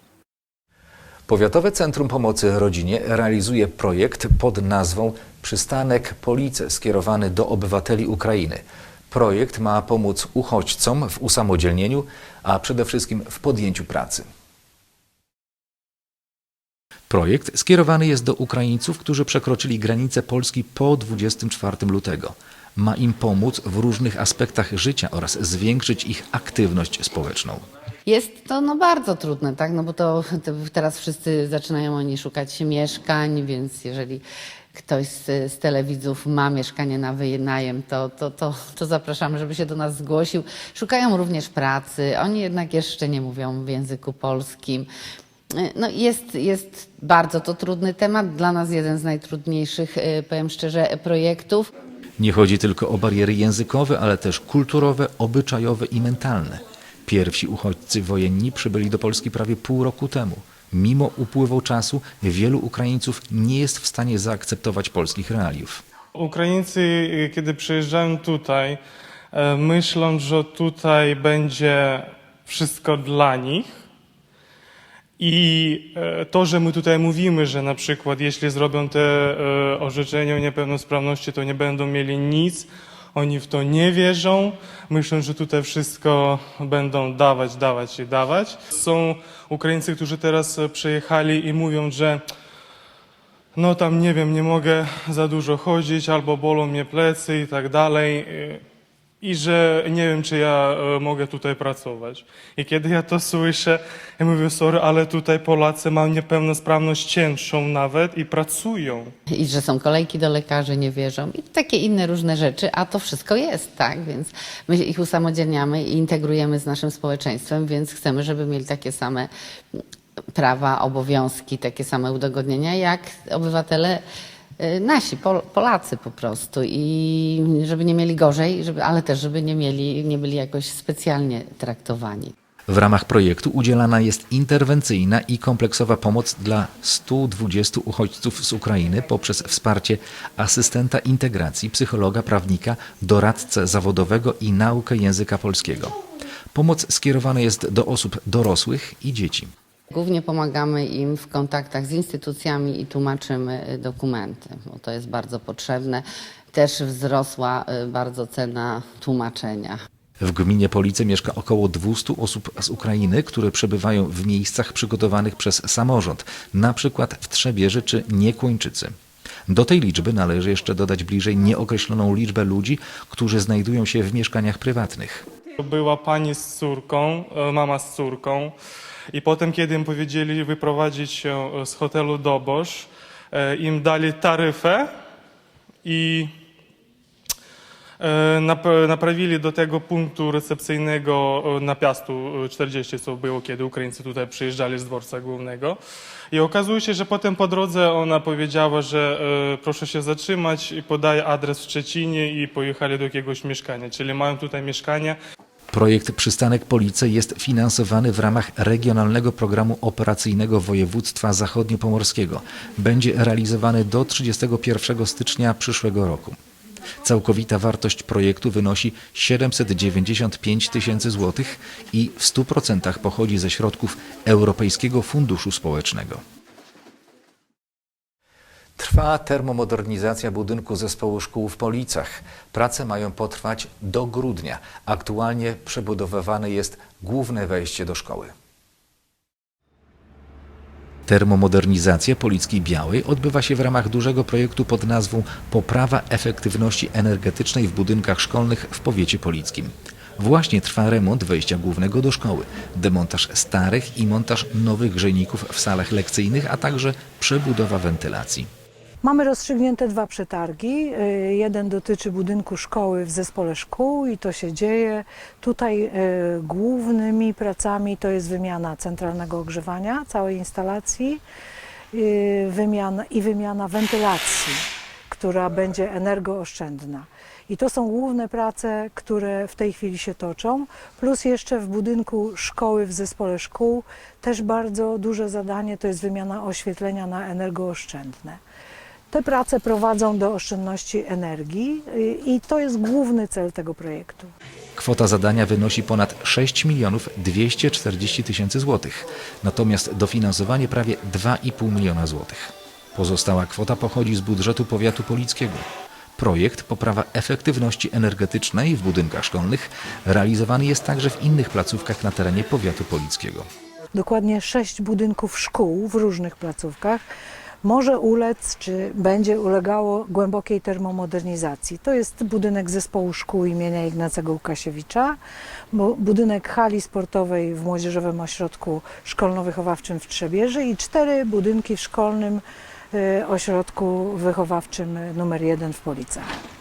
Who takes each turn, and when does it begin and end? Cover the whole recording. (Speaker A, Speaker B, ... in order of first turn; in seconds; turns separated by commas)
Speaker A: 1.3-14.3, Speaker A: 17.1-27.6, Speaker B: 28.1-34.2, Speaker B: 34.8-44.9, Speaker B: 45.6-51.7, Speaker A: 52.2-65.8, Speaker C: 66.2-68.8, Speaker C: 69.3-73.7, Speaker C: 75.2-92.2, Speaker C: 93.5-98.6, Speaker C: 99.2-109.1, Speaker B: 109.3-119.8, Speaker B: 120.3-124.0, Speaker B: 124.6-132.3, Speaker A: 132.7-145.9, Speaker A: 146.5-149.5, Speaker B: 149.9-159.8, Speaker A: 160.2-168.9, Speaker A: 169.5-175.3, Speaker C: 175.6-178.5, Speaker C: 179.1-184.8, Speaker C: 185.8-186.3, Speaker C: 188.0-195.8, Speaker C: 196.3-205.2, Speaker A: 205.7-216.4, Speaker A: 217.1-226.2, Speaker A: 228.8-238.3, Speaker A: 241.1-258.5, Speaker D: 259.0-271.2, Speaker D: 271.9-288.4, Speaker D: 289.1-294.3, Speaker A: 294.8-313.5, Speaker D: 313.9-317.0, Speaker D: 317.6-325.2, Speaker D: 325.7-336.3